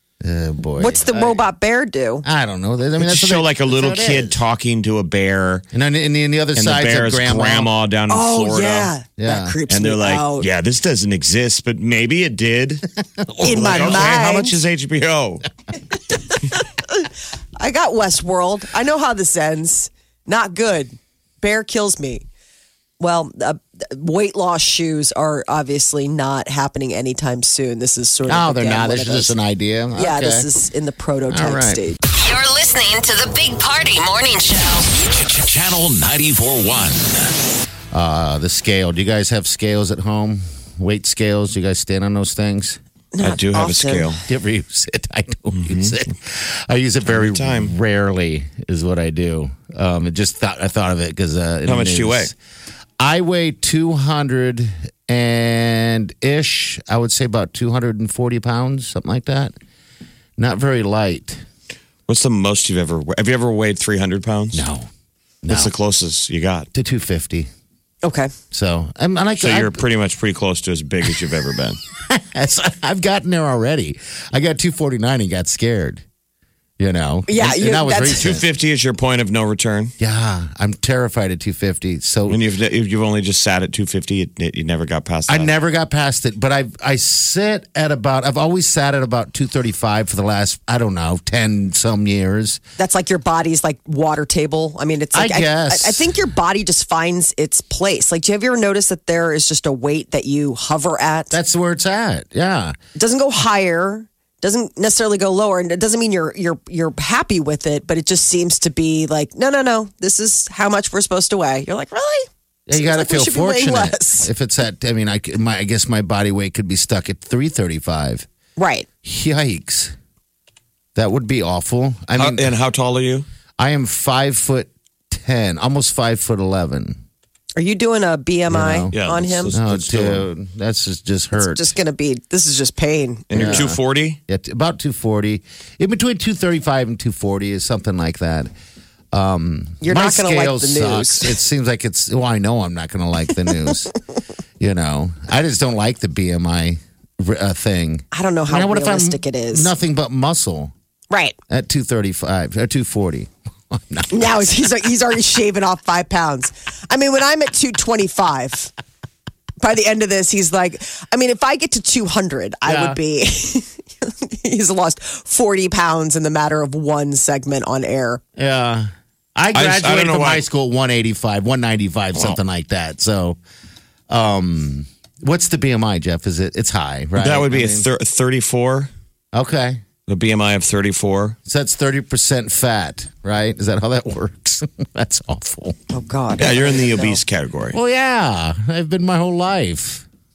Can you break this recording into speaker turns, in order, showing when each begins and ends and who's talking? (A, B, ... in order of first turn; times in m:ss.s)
0:00.2-0:01.4 A
0:00.8-0:02.2 B
0:02.2-0:04.4 A
0:03.0-0:05.6 C
0:05.7-0:07.7 A
0:06.6-0:08.9 C
0:08.1-0:10.5 B
0:09.2-0:09.6 A
0:09.7-0:15.5 C
0:13.2-0:14.1 A
0:13.4-0:14.6 B
0:16.4-0:22.2 B
0:23.0-0:29.3 B
0:28.2-0:30.5 A
0:30.0-0:32.0 B
0:31.3-0:31.8 A
0:32.1-0:35.0 D
0:35.0-0:37.3 E
0:37.9-0:42.8 A
0:43.1-0:44.2 B
0:43.2-0:44.2 C
0:44.3-0:52.3 A
0:45.5-0:46.0 C
0:47.1-0:47.7 C
0:51.6-0:52.3 C
0:53.0-0:59.5 A
1:00.4-1:01.4 A
1:02.1-1:04.7 C
1:04.5-1:04.9 A
1:05.4-1:05.7 A
1:05.5-1:06.7 C
1:06.7-1:07.5 A
1:08.0-1:08.3 B
1:08.5-1:09.8 A
1:09.4-1:11.8 C
1:12.0-1:16.0 A
1:16.8-1:18.4 A
1:17.3-1:18.3 B
1:18.2-1:19.9 C
1:20.0-1:22.4 A
1:22.3-1:25.5 C
1:25.3-1:32.6 A
1:32.8-1:41.3 B
1:35.1-1:36.1 A
1:41.3-1:42.8 A
1:42.9-1:54.3 B
1:52.7-1:58.3 A
1:58.6-1:58.9 B
1:59.0-1:59.9 A
2:00.9-2:02.5 A
2:02.2-2:03.2 C
2:03.6-2:07.0 A
2:07.6-2:09.5 B
2:08.5-2:08.9 A
2:08.9-2:10.3 C
2:09.5-2:11.7 A
2:11.4-2:13.6 B
2:13.3-2:14.2 C
2:13.3-2:18.5 A
2:19.1-2:23.9 A
2:19.8-2:21.3 B
2:24.6-2:30.7 A
2:28.1-2:29.7 B
2:31.1-2:31.4 B
2:31.5-2:34.4 A
2:34.1-2:38.7 B
2:39.6-2:48.2 B
2:42.6-2:43.0 A
2:48.4-2:53.4 A
2:49.5-2:50.4 C
2:54.1-2:57.9 A
2:57.2-2:58.9 C
2:59.3-2:59.8 A
3:00.1-3:01.4 C
3:01.4-3:05.8 A
3:05.9-3:07.2 B
3:06.4-3:07.8 C
3:07.7-3:10.0 A